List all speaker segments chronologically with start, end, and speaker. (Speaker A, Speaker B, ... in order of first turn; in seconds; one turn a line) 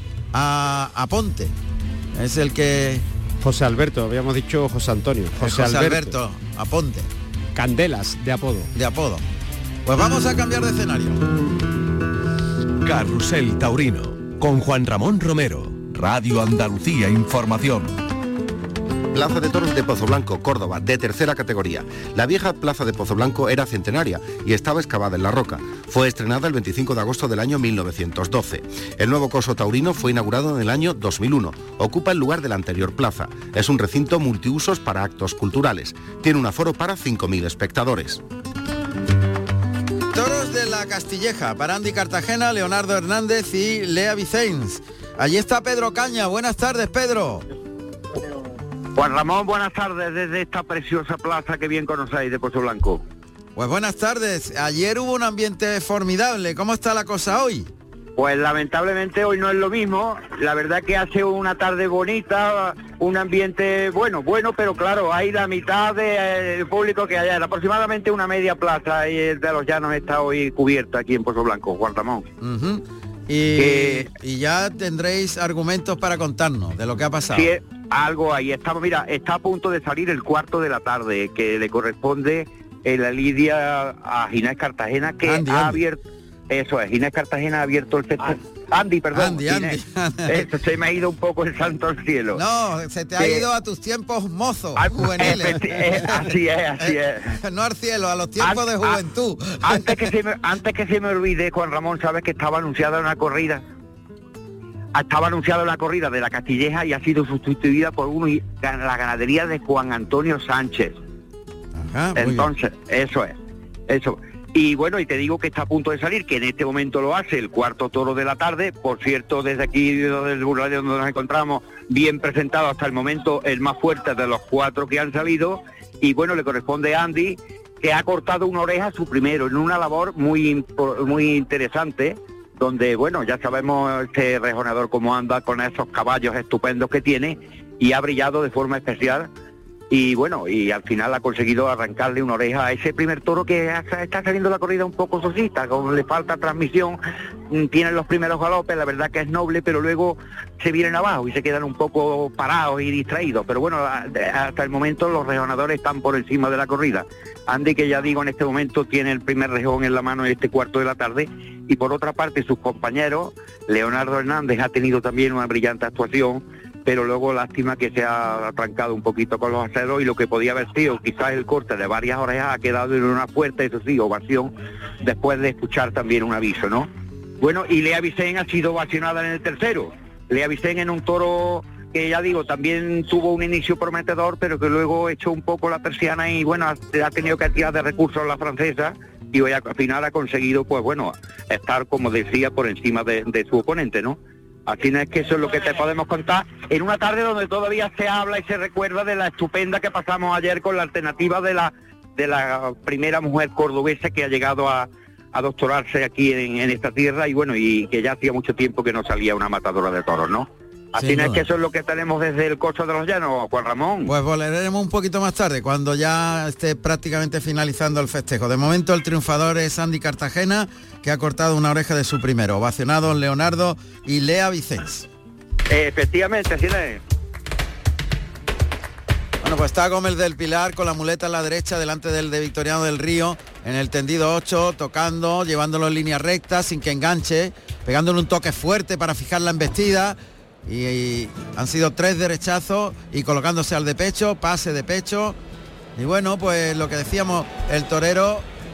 Speaker A: 0.3-1.5
Speaker A: 2.1-3.0
Speaker B: 3.4-6.2
Speaker A: 5.4-7.1
Speaker B: 7.5-8.7
Speaker A: 8.7-9.2
Speaker A: 9.8-11.2
Speaker C: 12.8-18.0
Speaker D: 19.1-38.2
Speaker A: 40.1-47.4
Speaker E: 48.9-53.0
Speaker A: 53.5-57.7
Speaker E: 58.2-72.2
Speaker A: 72.4-77.5
Speaker E: 73.6-74.1
Speaker E: 77.3-92.4
Speaker A: 85.2-85.8
Speaker A: 89.1-90.5
Speaker A: 92.3-100.1
Speaker E: 93.2-93.4
Speaker E: 94.8-97.3
Speaker E: 98.4-99.0
Speaker E: 99.6-103.6
Speaker E: 104.9-111.0
Speaker A: 111.7-112.5
Speaker E: 112.2-113.3
Speaker E: 113.9-139.3
Speaker E: 139.9-147.0
Speaker E: 147.5-176.9
Speaker E: 177.4-214.1
Speaker A: 210.9-211.4
Speaker A: 214.1-225.1
Speaker E: 225.7-227.0
Speaker A: 229.4-245.4
Speaker A: 245.9-248.5